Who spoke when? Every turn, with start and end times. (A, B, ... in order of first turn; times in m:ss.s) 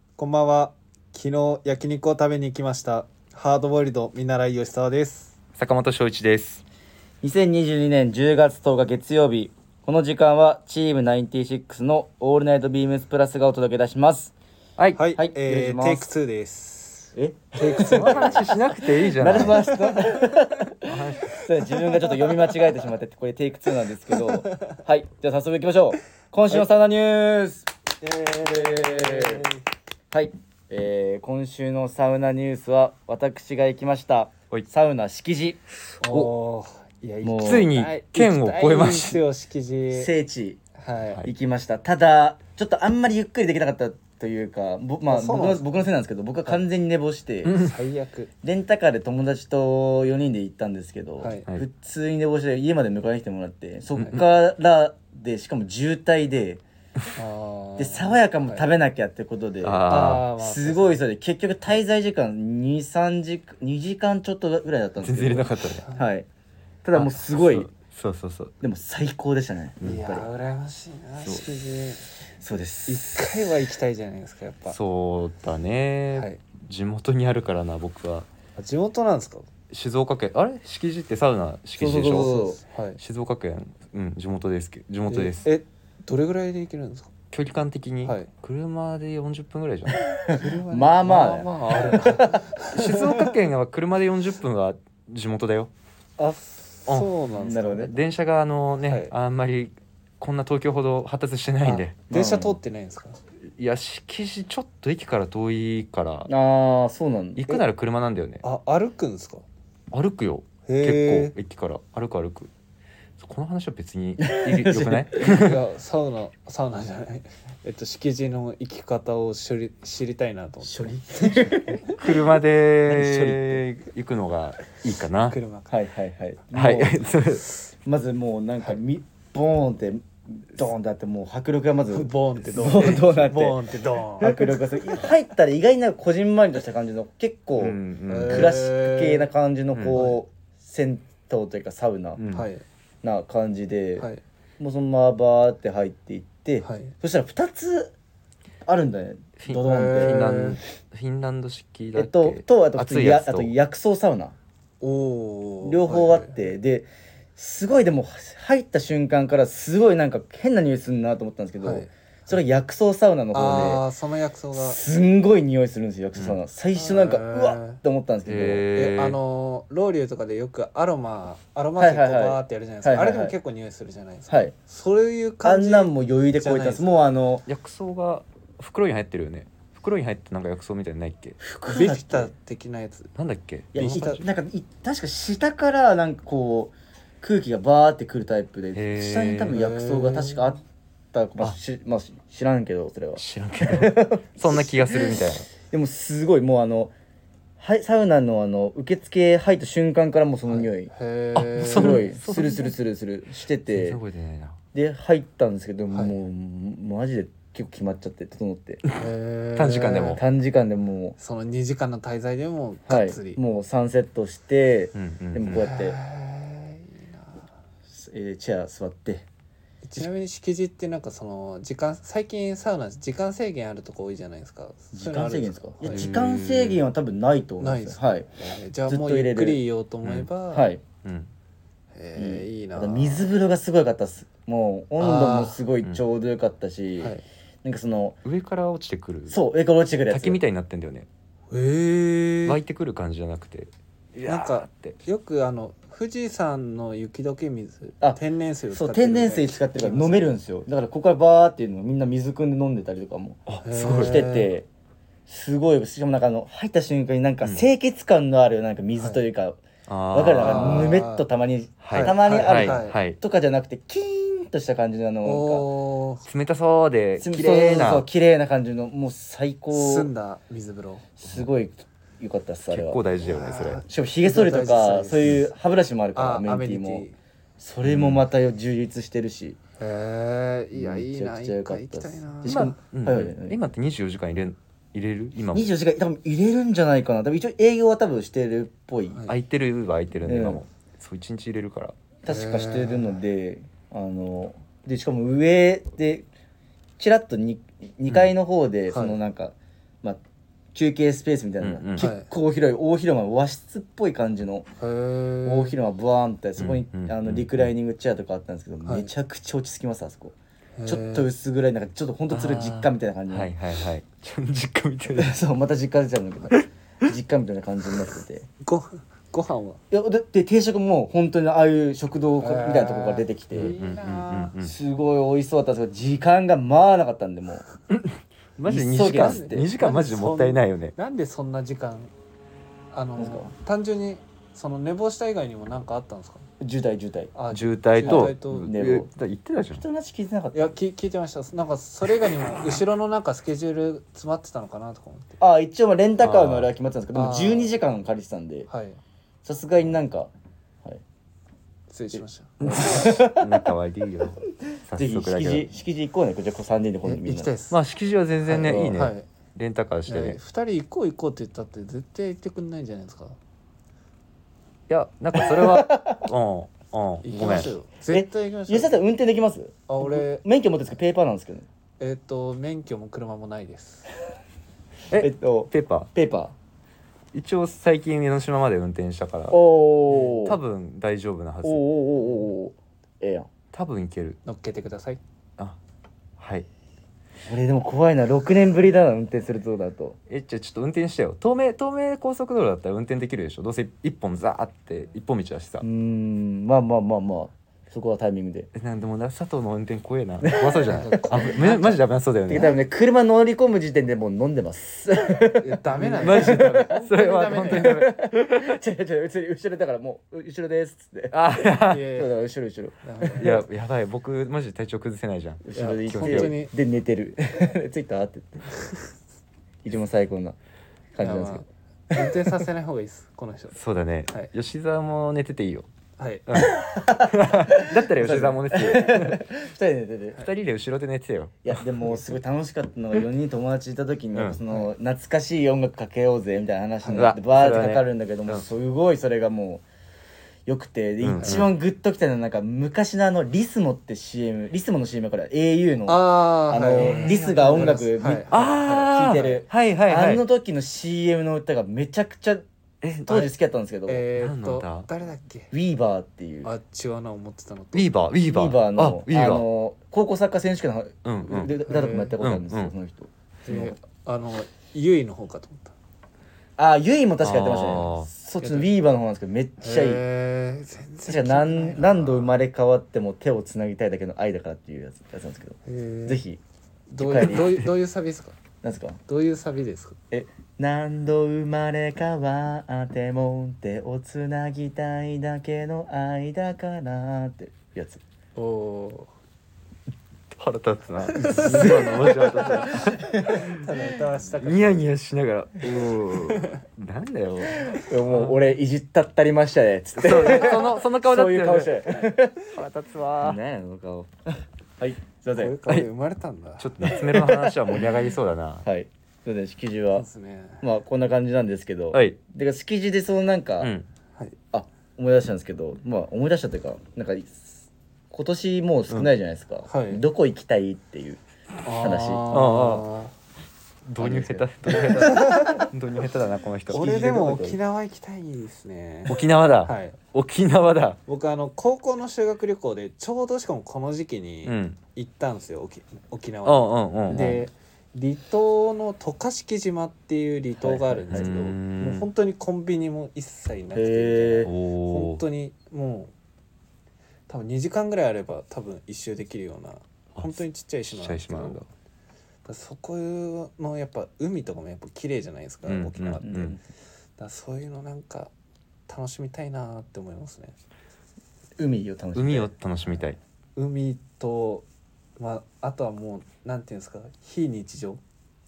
0:00.2-0:05.3 A
0:05.6-0:06.6 B
0:07.2-0:14.3 C
0:14.8-0:15.0 B
0:14.9-0:20.4 A
0:15.2-0:16.1 C
0:17.1-0:27.7 C
0:17.7-0:19.6 B
0:20.8-0:21.4 B
0:21.6-0:22.8 A
0:24.1-0:24.8 A
0:28.0-0:29.6 A
0:28.4-0:29.4 C
0:30.1-0:35.6 C
0:36.0-0:40.1 A
0:36.0-0:36.3 B
0:37.2-0:37.7 C
0:37.4-0:39.2 B
0:39.9-0:40.6 C
0:40.8-0:41.2 A
0:41.2-0:47.6 C
0:45.1-0:45.6 A
0:47.4-0:48.3 A
0:48.4-0:56.6 C
0:51.2-0:51.5 A
0:57.1-0:58.7 A
0:57.8-1:06.3 C
0:59.6-1:00.3 B
0:59.9-1:01.0 A
1:05.0-1:05.8 B
1:05.8-1:06.0 A
1:06.8-1:07.7 C
1:06.9-1:08.5 B
1:08.6-1:10.3 C
1:09.8-1:12.1 A
1:09.8-1:10.1 B
1:12.3-1:13.5 C
1:12.9-1:14.8 A
1:14.7-1:18.3 B
1:16.1-1:16.4 A
1:18.6-1:19.5 A
1:19.7-1:22.4 B
1:21.8-1:22.6 C
1:22.1-1:23.0 A
1:23.0-1:25.5 B
1:25.1-1:27.1 A
1:27.3-1:30.0 B
1:28.0-1:28.3 A
1:30.0-1:32.5 C
1:30.3-1:33.3 A
1:32.6-1:35.7 B
1:36.2-1:37.8 A
1:36.9-1:42.0 B
1:37.3-1:37.9 C
1:38.8-1:39.1 A
1:41.7-1:43.2 A
1:42.1-1:42.6 C
1:43.6-1:46.3 B
1:46.3-1:47.4 C
1:47.4-1:48.4 B
1:48.4-1:49.4 A
1:49.9-1:52.5 B
1:50.6-1:51.3 A
1:53.2-1:55.6 B
1:54.2-1:55.2 C
1:55.2-2:02.0 A
2:00.6-2:01.9 C
2:02.0-2:05.4 B
2:02.8-2:03.6 C
2:05.3-2:05.7 A
2:05.7-2:07.1 C
2:06.5-2:07.4 B
2:07.8-2:13.6 C
2:11.9-2:15.0 A
2:14.2-2:22.2 C
2:17.6-2:18.5 B
2:18.1-2:19.3 A
2:19.9-2:20.2 A
2:22.2-2:22.5 B
2:22.3-2:22.6 A
2:23.0-2:24.1 C
2:24.6-2:27.9 C
2:26.6-2:26.9 A
2:28.6-2:30.4 C
2:29.4-2:33.5 B
2:29.6-2:30.6 A
2:31.9-2:34.3 C
2:34.8-2:36.3 A
2:35.6-2:43.9 C
2:41.6-2:41.9 A
2:43.3-2:44.8 A
2:44.5-2:48.6 C
2:46.1-2:46.4 B
2:46.7-2:47.8 A
2:48.2-2:49.2 B
2:48.7-2:56.9 A
2:51.8-2:53.3 C
2:54.3-2:54.5 C
2:55.4-2:57.4 C
2:57.5-3:01.4 B
3:01.4-3:02.3 C
3:01.7-3:03.1 A
3:03.2-3:04.2 B
3:03.7-3:10.6 C
3:03.8-3:04.2 A
3:08.7-3:09.6 B
3:09.5-3:10.5 A
3:11.1-3:16.9 C
3:13.2-3:15.5 B
3:17.6-3:20.9 C
3:20.5-3:22.1 A
3:21.4-3:22.8 B
3:21.6-3:24.0 C
3:23.7-3:24.6 B
3:24.7-3:28.8 C
3:25.9-3:26.2 A
3:29.0-3:30.2 A
3:29.6-3:30.2 B
3:30.1-3:31.2 C
3:31.2-3:33.4 A
3:32.9-3:36.0 C
3:34.9-3:35.6 B
3:35.5-3:37.4 A
3:37.9-3:39.2 C
3:39.8-3:46.1 A
3:44.9-3:48.3 C
3:45.8-3:46.8 B
3:47.6-3:50.7 A
3:48.8-3:49.6 C
3:50.0-3:50.3 B
3:50.5-3:50.8 C
3:51.0-3:51.3 B
3:51.9-3:53.3 A
3:52.1-3:58.2 C
3:55.0-3:55.6 A
3:58.2-3:59.4 B
3:59.3-4:00.4 C
4:00.1-4:01.1 B
4:01.5-4:02.6 A
4:02.4-4:05.0 B
4:04.2-4:10.3 A
4:08.0-4:14.7 C
4:13.5-4:14.3 B
4:13.6-4:14.5 A
4:15.3-4:25.7 C
4:19.0-4:19.2 A
4:19.9-4:20.9 B
4:20.4-4:21.2 A
4:21.8-4:23.2 B
4:21.9-4:23.0 A
4:25.2-4:26.2 A
4:26.3-4:28.0 B
4:27.2-4:30.1 C
4:29.7-4:31.1 A
4:31.2-4:33.0 C
4:32.7-4:33.8 B
4:33.2-4:35.4 A
4:33.9-4:37.0 C
4:36.1-4:37.2 A
4:37.6-4:39.6 C
4:37.8-4:38.2 B
4:39.8-4:42.6 A
4:40.7-4:43.6 C
4:42.4-4:45.7 B
4:45.5-4:49.2 C
4:49.3-4:52.0 B
4:50.2-4:50.6 C
4:52.2-4:56.3 C
4:52.3-4:53.2 A
4:57.0-5:00.2 C
4:58.9-4:59.2 A
5:00.7-5:04.6 C
5:01.6-5:02.1 B
5:02.0-5:02.3 A
5:04.8-5:05.8 A
5:05.4-5:13.5 C
5:06.6-5:07.7 B
5:08.8-5:09.1 A
5:10.8-5:11.3 A
5:12.3-5:15.3 B
5:15.1-5:18.5 C
5:18.6-5:19.8 A
5:19.9-5:23.7 C
5:22.4-5:24.5 A
5:23.5-5:24.7 B
5:24.6-5:27.6 C
5:27.9-5:30.9 B
5:28.6-5:29.7 C
5:29.1-5:32.1 A
5:32.9-5:36.5 A
5:33.2-5:33.5 C
5:36.6-5:37.3 C
5:37.3-5:38.7 A
5:37.5-5:39.8 B
5:38.0-5:39.1 C
5:39.7-5:40.8 C
5:40.5-5:45.4 A
5:45.4-5:48.7 C
5:46.2-5:46.7 B
5:47.1-5:47.8 A
5:48.7-5:49.0 A
5:49.4-5:50.3 C
5:51.9-5:52.9 A
5:52.6-5:55.6 B
5:52.6-5:53.7 C
5:54.9-5:57.5 C
5:57.0-5:57.8 A
5:57.7-6:00.4 B
5:58.5-5:59.0 C
5:58.5-5:59.2 A
6:00.1-6:03.4 A
6:04.9-6:07.7 B
6:05.3-6:06.3 C
6:07.2-6:09.0 A
6:08.1-6:11.6 C
6:09.9-6:10.4 A
6:12.0-6:14.1 A
6:15.1-6:16.1 B
6:15.1-6:16.5 C
6:17.3-6:19.6 B
6:19.5-6:20.6 C
6:20.4-6:21.8 B
6:21.6-6:23.5 C
6:23.7-6:24.4 B
6:24.4-6:25.2 A
6:26.4-6:26.6 B
6:27.5-6:30.2 C
6:30.3-6:35.8 B
6:35.8-6:38.7 C
6:38.7-6:42.7 B
6:40.4-6:41.5 C
6:40.9-6:42.0 A
6:42.5-6:47.0 C
6:45.6-6:48.0 A
6:46.2-6:48.8 B
6:47.7-6:53.5 C
6:51.3-6:52.1 B
6:51.8-6:52.3 A
6:53.0-6:53.6 A
6:53.4-6:56.6 B
6:55.6-6:58.8 C
6:55.7-6:56.7 A
6:59.8-7:00.6 C
7:01.1-7:01.6 C
7:01.2-7:04.5 A
7:03.7-7:05.9 B
7:06.2-7:06.5 A
7:06.5-7:09.4 B
7:06.6-7:10.4 C
7:10.4-7:11.8 B
7:11.6-7:19.8 C
7:14.3-7:14.6 B
7:17.0-7:17.3 A
7:17.1-7:18.6 B
7:20.6-7:32.6 C
7:21.2-7:21.7 B
7:21.4-7:21.6 A
7:26.0-7:29.1 A
7:27.0-7:27.4 B
7:28.5-7:30.4 B
7:33.0-7:33.5 B
7:33.3-7:34.3 C
7:34.1-7:35.7 A
7:34.3-7:35.1 B
7:35.7-7:36.7 C
7:36.6-7:38.1 A
7:37.9-7:39.7 B
7:38.4-7:44.0 C
7:41.2-7:41.7 B
7:41.8-7:42.4 A
7:42.4-7:42.9 B
7:43.6-7:45.9 A
7:46.8-7:50.2 C
7:47.4-7:48.3 B
7:48.6-7:48.9 A
7:49.8-7:52.5 A
7:51.2-7:56.6 C
7:55.8-7:56.4 A
7:57.1-7:58.6 A
7:57.2-7:57.8 C
7:58.8-7:59.2 C
7:59.3-8:00.2 A
8:00.3-8:08.2 C
8:08.6-8:09.3 A
8:10.5-8:13.8 B
8:11.3-8:15.1 A
8:11.4-8:13.6 C
8:14.6-8:18.0 B
8:16.4-8:16.8 A
8:17.9-8:22.7 C
8:20.2-8:23.6 B
8:20.3-8:20.7 A
8:23.4-8:25.8 C
8:25.5-8:26.9 A
8:26.8-8:28.8 B
8:27.0-8:28.3 C
8:28.8-8:30.2 C
8:30.1-8:30.8 A
8:30.8-8:33.9 C
8:32.1-8:32.4 B
8:33.8-8:34.1 B
8:34.7-8:42.4 C
8:39.8-8:40.2 A
8:41.8-8:43.3 A
8:42.5-8:43.1 B
8:44.1-8:47.1 B
8:44.2-8:45.9 C
8:45.0-8:45.8 A
8:46.9-8:47.8 C
8:46.9-8:50.2 A
8:49.3-8:51.2 B
8:51.3-9:06.3 A
8:54.6-8:55.0 B
8:56.6-8:57.6 B
9:00.8-9:01.5 C
9:01.3-9:02.3 B
9:03.9-9:04.7 C
9:04.6-9:05.4 B
9:07.5-9:11.8 A
9:10.3-9:11.9 B
9:12.6-9:16.5 A
9:15.8-9:16.8 B
9:16.4-9:16.8 C
9:17.4-9:18.5 A
9:19.1-9:20.7 A
9:21.8-9:22.7 C
9:22.3-9:23.4 B
9:23.8-9:24.8 A
9:25.4-9:28.2 A